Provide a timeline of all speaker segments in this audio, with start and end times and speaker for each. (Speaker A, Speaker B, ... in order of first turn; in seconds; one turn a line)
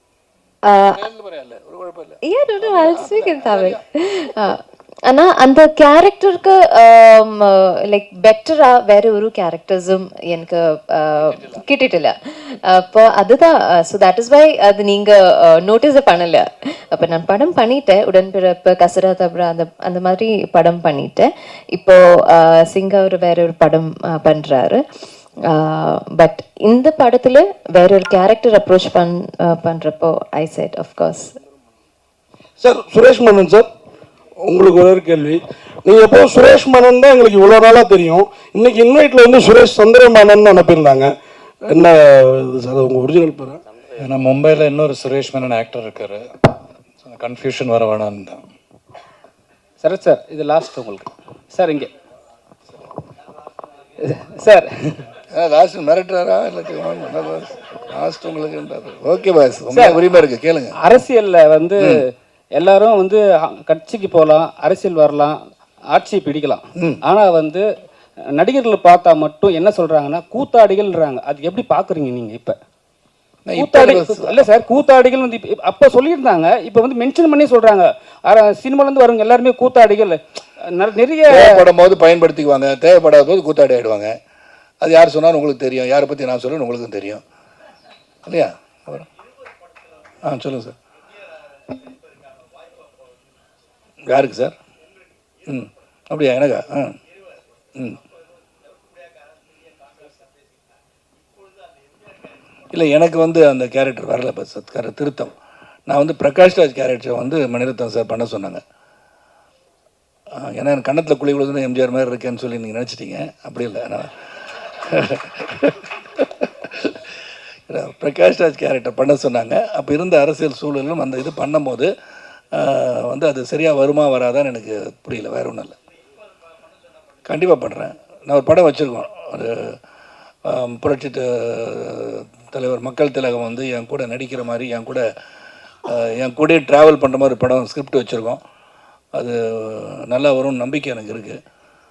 Speaker A: 0.7-1.0
Speaker B: 0.8-3.8
Speaker A: 2.2-24.8
Speaker A: 25.5-31.3
Speaker C: 32.6-33.7
Speaker C: 34.5-41.1
Speaker C: 41.7-43.6
Speaker D: 44.0-46.3
Speaker D: 47.0-48.5
Speaker E: 49.8-51.9
Speaker E: 54.0-55.0
Speaker B: 55.3-60.8
Speaker E: 60.8-61.8
Speaker B: 61.8-62.0
Speaker E: 62.5-65.4
Speaker E: 65.9-67.6
Speaker B: 66.8-67.0
Speaker E: 68.4-72.6
Speaker B: 73.5-74.5
Speaker E: 73.7-81.4
Speaker B: 81.3-84.2
Speaker B: 84.8-87.2
Speaker B: 88.2-89.0
Speaker B: 90.2-90.8
Speaker B: 94.1-94.5
Speaker B: 95.5-97.0
Speaker B: 102.7-105.3
Speaker B: 105.9-108.6
Speaker B: 110.3-117.1
Speaker B: 117.7-121.9
Speaker B: 122.5-125.8
Speaker B: 127.2-129.8
Speaker B: 130.4-135.1
Speaker B: 135.8-138.4
Speaker B: 139.2-141.4